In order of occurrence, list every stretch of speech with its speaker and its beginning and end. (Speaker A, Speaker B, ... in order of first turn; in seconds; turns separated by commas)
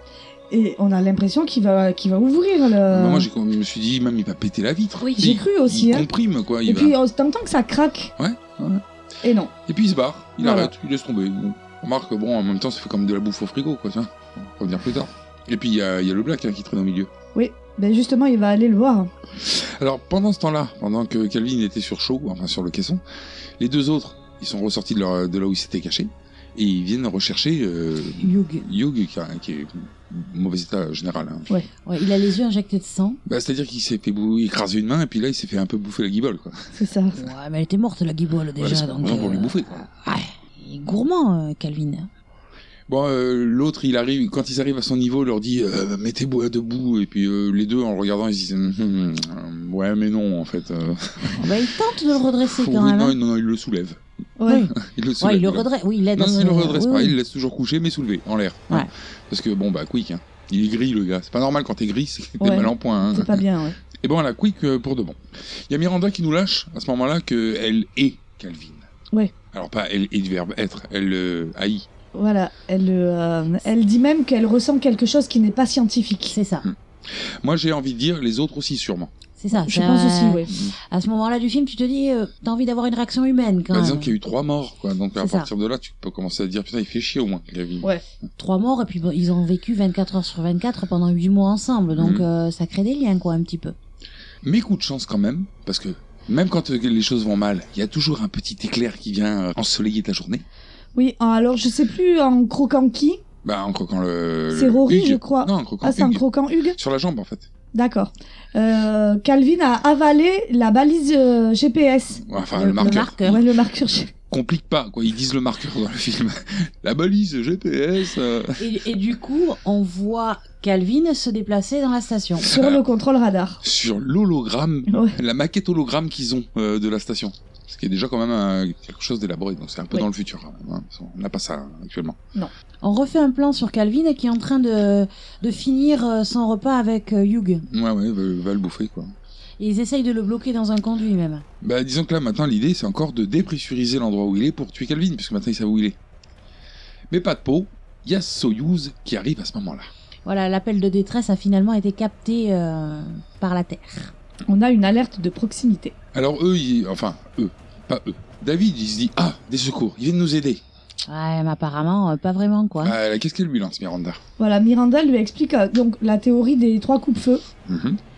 Speaker A: 0.5-3.3, Speaker B: 2.9-6.9, Speaker A: 5.1-6.1, Speaker A: 6.6-8.1, Speaker B: 8.2-8.8, Speaker A: 9.2-9.5, Speaker B: 9.7-17.1, Speaker A: 10.4-10.7, Speaker A: 17.3-19.1, Speaker B: 19.4-23.0, Speaker B: 23.6-31.5, Speaker C: 28.2-28.7, Speaker C: 31.8-33.2, Speaker B: 33.2-36.7, Speaker A: 36.8-37.2, Speaker C: 37.1-42.1, Speaker B: 38.6-39.9, Speaker B: 42.9-51.5, Speaker C: 51.4-53.2, Speaker B: 52.4-54.0, Speaker A: 54.4-54.7, Speaker C: 54.5-57.1, Speaker B: 54.7-63.4, Speaker A: 62.4-63.8, Speaker B: 64.0-68.9, Speaker B: 69.5-71.9, Speaker A: 72.1-76.3, Speaker C: 76.3-76.7, Speaker B: 76.6-79.1, Speaker C: 79.4-84.1, Speaker A: 79.5-80.5, Speaker B: 80.5-80.8, Speaker B: 83.7-87.9, Speaker C: 85.2-85.5, Speaker C: 88.4-93.8, Speaker B: 91.9-92.2, Speaker B: 94.4-100.4, Speaker A: 100.9-103.2, Speaker B: 103.4-107.5, Speaker A: 104.5-106.8, Speaker A: 107.7-112.2, Speaker B: 112.1-113.4, Speaker C: 112.5-113.4, Speaker A: 112.7-114.1, Speaker B: 114.3-118.7, Speaker C: 118.6-122.5, Speaker A: 122.4-123.6, Speaker B: 122.5-122.8, Speaker B: 123.6-132.2, Speaker A: 124.9-125.2, Speaker C: 132.8-137.7, Speaker B: 137.7-139.1, Speaker C: 139.6-141.4, Speaker B: 141.6-146.0, Speaker B: 147.1-149.9, Speaker C: 150.2-154.1, Speaker A: 154.5-155.9, Speaker B: 156.1-160.6, Speaker C: 161.1-162.9, Speaker B: 162.8-164.2, Speaker A: 164.4-167.4, Speaker B: 167.7-168.0